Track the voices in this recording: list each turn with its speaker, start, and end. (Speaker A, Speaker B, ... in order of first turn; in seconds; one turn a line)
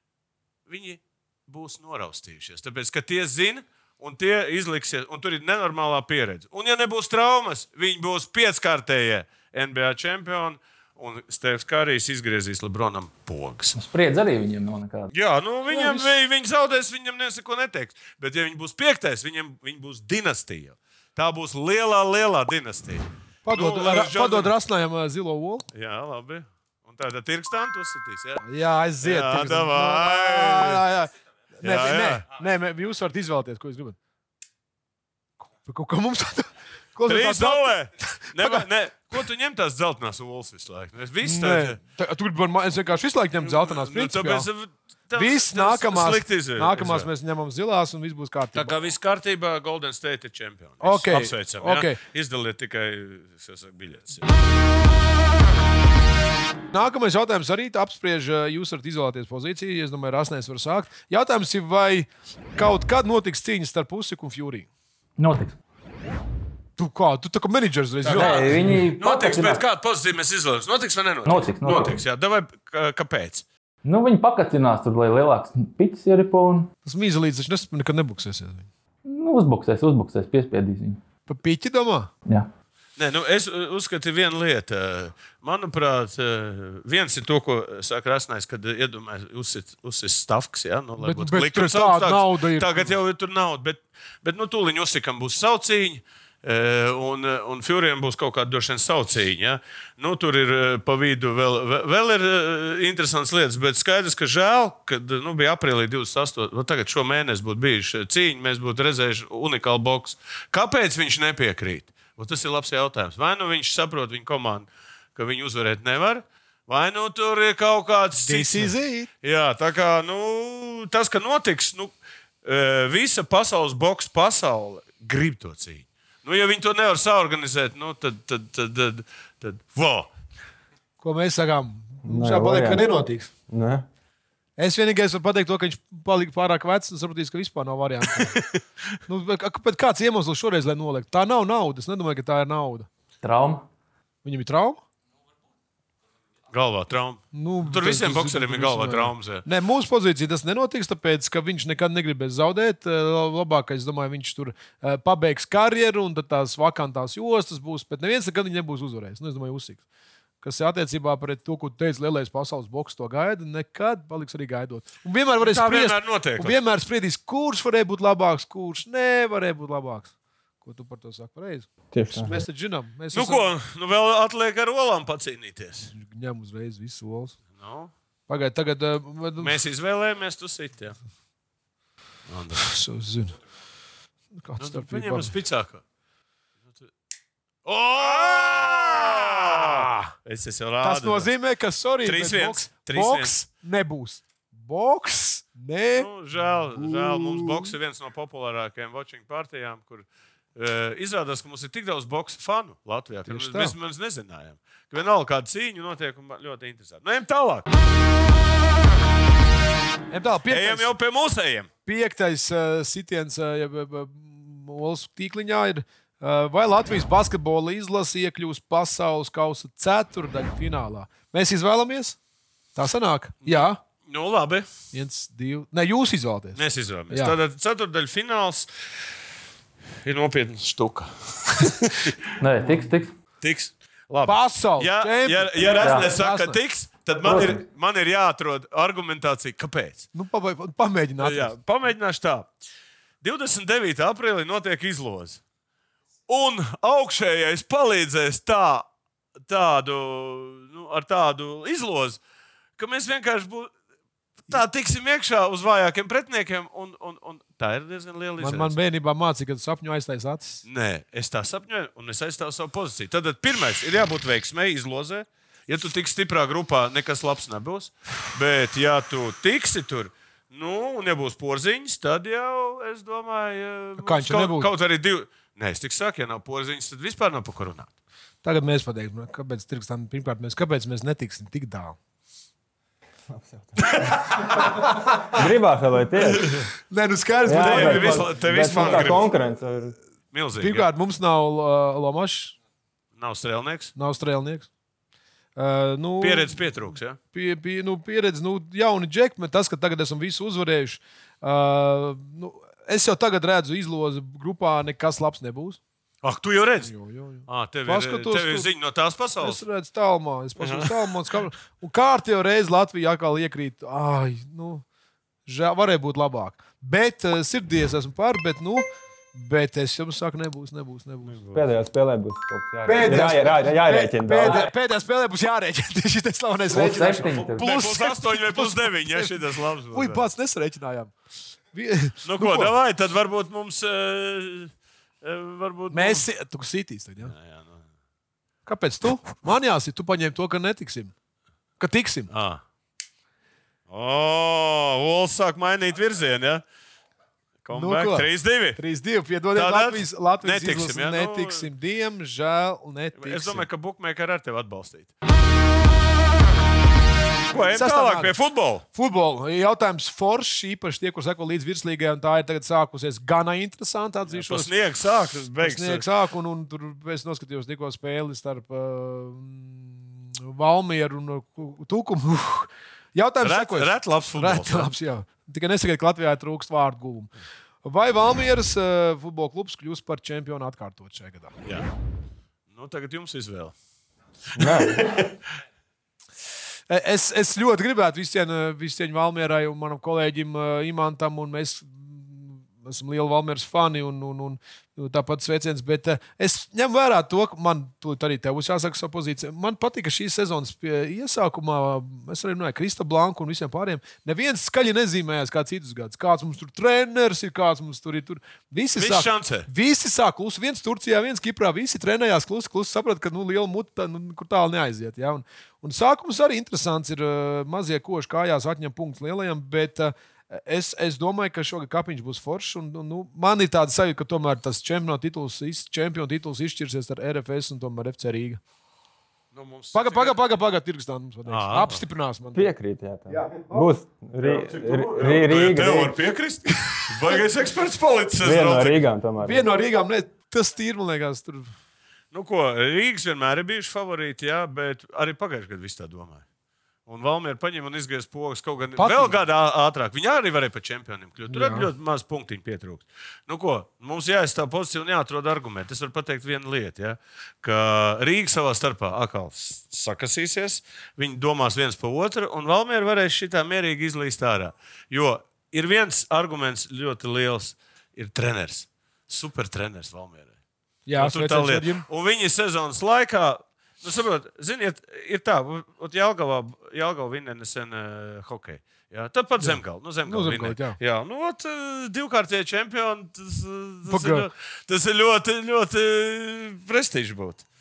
Speaker A: 0.7-13.8
Speaker B: 13.8-15.1
Speaker A: 15.1-24.5
Speaker C: 15.7-16.1
Speaker C: 23.4-25.7
Speaker A: 25.7-28.4
Speaker C: 28.4-34.0
Speaker A: 29.0-30.8
Speaker A: 31.6-32.3
Speaker C: 35.6-39.2
Speaker A: 37.0-41.8
Speaker C: 41.2-44.5
Speaker A: 43.4-47.1
Speaker C: 45.2-48.7
Speaker A: 48.5-54.3
Speaker C: 50.8-52.0
Speaker C: 56.7-64.7
Speaker B: 65.2-65.6
Speaker C: 66.8-68.5
Speaker A: 68.0-73.5
Speaker B: 68.1-69.6
Speaker B: 71.2-72.0
Speaker B: 73.8-76.7
Speaker C: 76.8-78.7
Speaker B: 79.1-81.0
Speaker C: 81.3-82.1
Speaker A: 83.0-130.1
Speaker C: 91.0-93.0
Speaker C: 118.2-119.1
Speaker C: 131.0-133.3
Speaker D: 132.0-132.9
Speaker D: 133.5-133.9
Speaker C: 134.6-138.4
Speaker A: 138.3-138.6
Speaker C: 139.1-142.9
Speaker B: 143.2-143.7
Speaker C: 144.2-144.8
Speaker A: 146.5-149.4
Speaker C: 147.3-159.8
Speaker C: 160.4-173.5
Speaker A: 165.4-166.6
Speaker D: 171.9-172.4
Speaker A: 173.1-175.9
Speaker C: 175.9-177.4
Speaker A: 177.5-177.9
Speaker C: 178.3-179.6
Speaker A: 179.4-181.0
Speaker A: 182.3-182.7
Speaker C: 182.6-183.3
Speaker C: 184.4-185.3
Speaker A: 184.6-185.8
Speaker A: 187.7-191.3
Speaker C: 188.3-190.1
Speaker C: 190.8-196.1
Speaker A: 192.0-193.3
Speaker A: 195.9-207.7
Speaker C: 196.7-197.8
Speaker C: 203.3-203.8
Speaker C: 210.1-210.9
Speaker A: 210.5-211.7
Speaker C: 211.9-222.2
Speaker C: 222.8-223.8
Speaker A: 223.4-224.7
Speaker C: 224.9-227.4
Speaker A: 226.6-228.7
Speaker A: 230.0-232.2
Speaker B: 232.4-233.1
Speaker A: 233.4-240.1
Speaker C: 234.2-236.6
Speaker B: 235.8-236.1
Speaker B: 237.2-237.6
Speaker C: 240.1-241.5
Speaker A: 241.2-242.5
Speaker A: 243.2-245.4
Speaker A: 246.3-248.9
Speaker A: 249.5-252.2
Speaker A: 252.8-253.7
Speaker A: 254.5-258.8
Speaker C: 258.4-260.6
Speaker A: 260.6-277.9
Speaker C: 274.0-274.7
Speaker C: 278.4-282.0
Speaker D: 283.3-284.5
Speaker C: 284.6-285.4
Speaker D: 285.3-286.6
Speaker C: 286.9-289.3
Speaker D: 287.4-289.9
Speaker A: 287.6-289.3
Speaker A: 290.3-290.9
Speaker C: 290.6-292.6
Speaker A: 293.2-293.9
Speaker C: 294.0-294.7
Speaker C: 295.6-305.8
Speaker A: 296.2-297.2
Speaker A: 306.2-306.9
Speaker C: 306.8-308.7
Speaker A: 307.5-309.6
Speaker C: 309.4-314.8
Speaker A: 310.6-311.1
Speaker C: 315.5-321.3
Speaker A: 321.2-321.6
Speaker D: 321.5-324.7
Speaker C: 322.9-329.4
Speaker B: 326.7-327.7
Speaker A: 327.2-330.2
Speaker C: 329.9-331.1
Speaker C: 331.7-332.7
Speaker A: 332.2-336.2
Speaker C: 335.9-337.3
Speaker A: 337.2-337.8
Speaker C: 338.7-341.1
Speaker C: 341.8-342.3
Speaker A: 342.3-342.6
Speaker A: 343.9-346.6
Speaker A: 347.6-348.8
Speaker C: 347.7-353.7
Speaker A: 349.5-351.7
Speaker A: 353.2-355.1
Speaker A: 357.5-358.8
Speaker C: 357.5-358.4
Speaker C: 358.9-364.7
Speaker A: 364.3-366.1
Speaker C: 365.6-377.3
Speaker A: 373.4-374.9
Speaker C: 377.8-381.5
Speaker A: 382.7-383.7
Speaker D: 384.6-385.1
Speaker A: 384.6-385.3
Speaker C: 386.9-428.6
Speaker A: 409.0-409.7
Speaker A: 429.5-430.4
Speaker C: 429.9-432.7
Speaker A: 431.5-432.0
Speaker D: 432.5-436.2
Speaker C: 433.3-433.8
Speaker A: 434.4-439.0
Speaker D: 438.4-439.7
Speaker C: 439.4-441.7
Speaker A: 442.3-446.4
Speaker A: 447.1-470.5
Speaker C: 449.0-449.4
Speaker C: 451.5-451.9
Speaker C: 471.1-472.1
Speaker A: 471.2-487.6
Speaker C: 479.6-481.0
Speaker C: 484.1-484.5